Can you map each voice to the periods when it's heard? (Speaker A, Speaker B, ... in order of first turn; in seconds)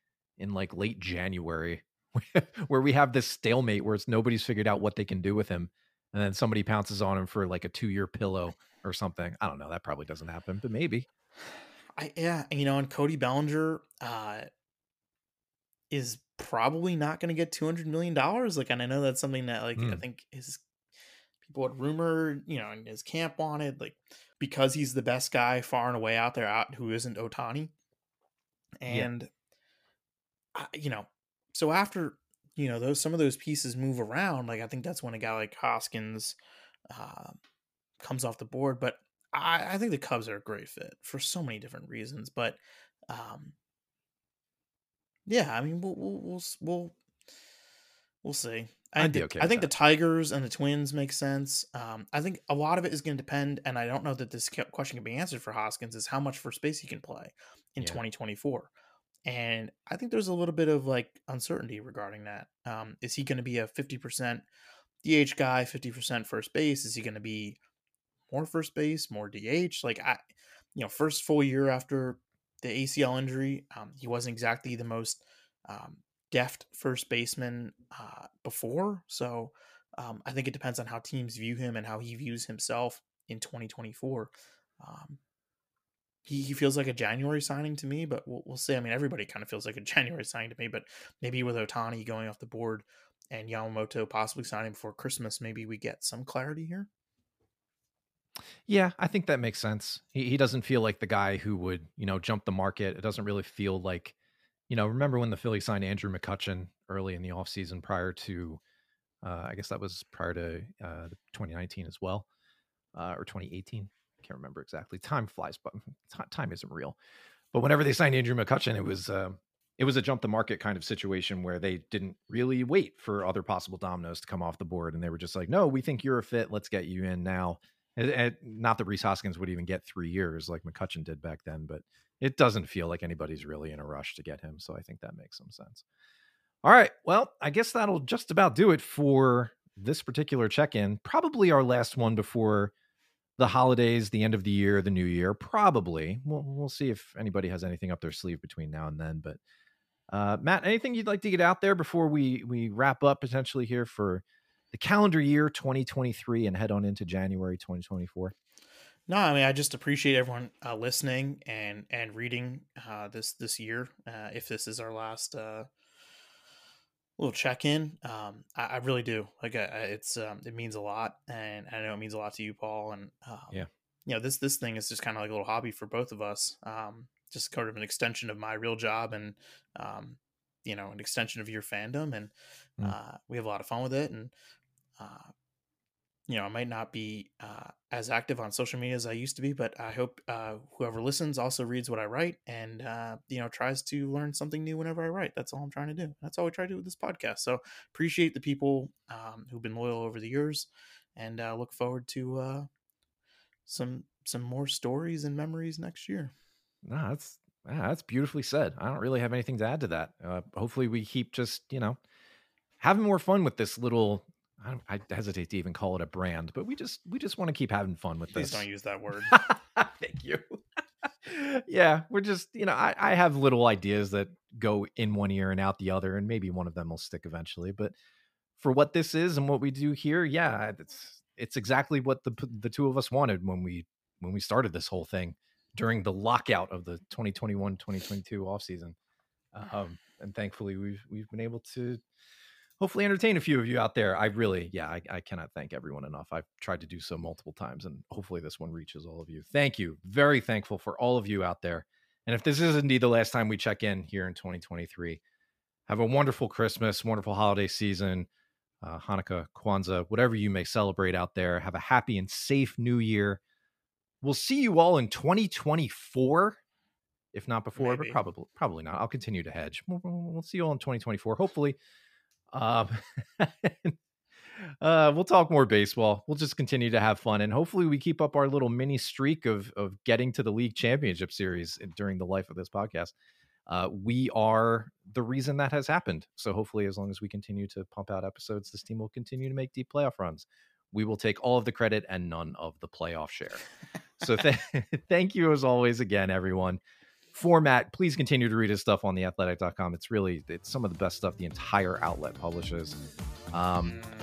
Speaker A: 0.4-11.1, 19.8-20.0, 49.0-49.7, 98.7-104.1, 104.7-108.6, 109.2-112.2, 112.9-117.0, 117.5-135.8, 136.6-142.7, 143.4-149.4, 150.1-158.3, 206.8-212.0, 212.8-218.6, 219.3-220.6, 221.2-227.9, 228.6-238.9, 239.5-242.0, 242.8-255.2, 255.9-258.3, 258.8-263.4, 264.2-266.6, 267.3-271.8, 272.5-273.9, 274.5-283.1, 283.7-293.6, 294.2-296.8, 297.3-303.0, 303.5-304.0
Speaker B: 12.0-14.5, 15.9-20.6, 21.4-27.7, 28.8-29.3, 30.5-36.4, 36.9-37.4, 38.0-42.6, 43.1-43.5, 45.2-47.0, 48.2-58.7, 59.2-64.5, 65.0-67.6, 68.3-70.2, 70.7-85.2, 86.2-96.9, 159.1-165.7, 167.2-184.3, 185.0-185.3, 186.3-202.7, 203.7-206.3, 218.3-219.3, 267.8-268.2